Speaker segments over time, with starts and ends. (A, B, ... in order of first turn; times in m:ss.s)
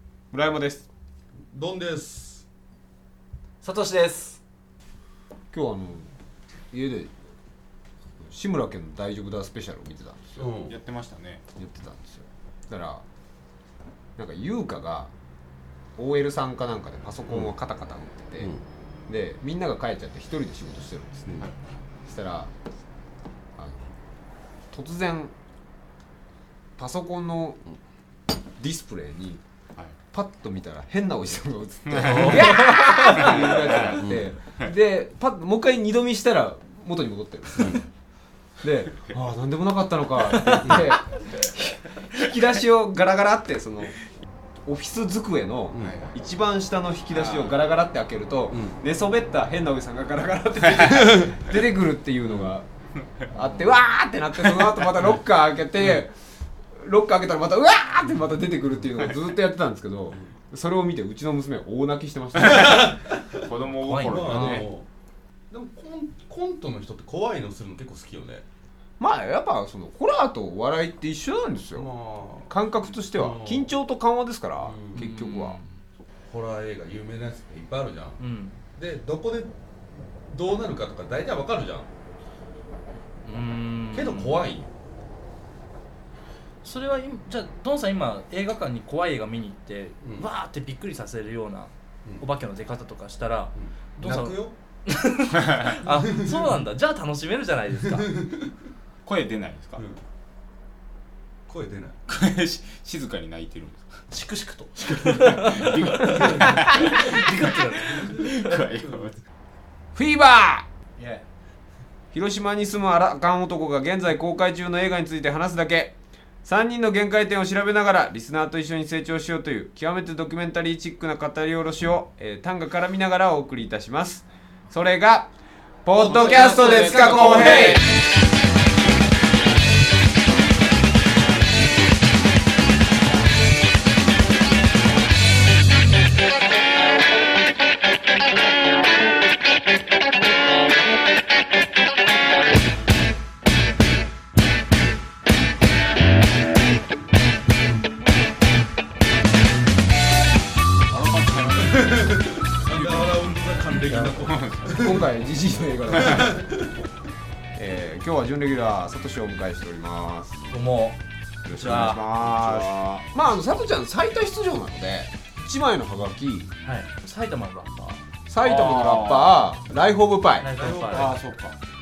0:00.3-0:00.9 A
0:01.5-0:02.4 B
0:03.6-0:04.4 C
0:05.5-0:06.1 A
0:06.7-0:07.1 A
0:08.2-0:10.5 A
0:10.4-0:10.8 B
0:10.6-0:11.4 D
0:11.6-0:13.0 A
0:14.2-0:15.1 A
0:16.0-0:18.5 A
0:19.1-0:21.5 A
0:22.0-0:22.5 A
0:23.6-0:23.9 A
0:24.7-0:25.3 A
0:26.8-0:27.6 A
0:28.6-0:29.4 A
0:30.1-0:37.8 A
0:31.8-0:34.7 D
0:32.0-0:34.3 B
0:37.6-0:37.8 B
0:38.6-0:44.0 A
0:40.4-0:40.7 C
0:44.6-0:52.6 A
0:45.7-0:46.0 B
0:45.8-0:46.1 D
0:47.1-0:47.6 D
0:48.5-0:48.8 B
0:50.6-0:51.0 D
0:50.9-0:51.4 B
0:53.3-0:56.1 A
0:53.4-0:53.7 C
0:56.7-1:03.0 A
1:02.4-1:03.4 B
1:02.5-1:04.6 D
1:03.7-1:04.7 C
1:04.0-1:04.9 B
1:05.5-1:08.4 B
1:09.0-1:11.9 A
1:11.7-1:13.7 B
1:12.5-1:15.6 A
1:14.6-1:15.1 B
1:14.9-1:15.8 C
1:16.3-1:18.2 B
1:18.2-1:18.6 C
1:18.8-1:19.5 B
1:20.2-1:21.9 B
1:23.2-1:24.5 C
1:23.9-1:24.7 B
1:26.6-1:38.1 C
1:30.0-1:30.3 B
1:33.6-1:34.5 B
1:35.3-1:35.8 D
1:35.9-1:36.5 B
1:38.0-1:38.5 B
1:39.0-1:39.8 D
1:41.5-1:42.0 B
1:42.1-1:43.9 D
1:44.1-1:48.6 C
1:44.8-1:49.2 D
1:46.0-1:48.2 B
1:49.9-1:50.6 A
1:51.0-1:51.2 C
1:52.1-2:05.3 A
2:05.8-2:07.9 A
2:05.9-2:07.8 D
2:06.0-2:07.8 C
2:30.9-2:35.0 D
2:31.5-2:35.1 B
2:33.9-2:36.5 A
2:35.9-2:36.4 D
2:35.9-2:36.7 B
2:37.5-2:40.5 A
2:40.5-2:41.0 C
2:41.4-2:46.5 A
2:41.5-2:42.0 C
2:41.6-2:43.1 D
2:46.6-2:48.0 C
2:48.2-2:50.5 A
2:48.4-2:49.4 D
2:50.4-2:51.2 C
2:50.6-2:51.1 B
2:50.9-2:51.6 D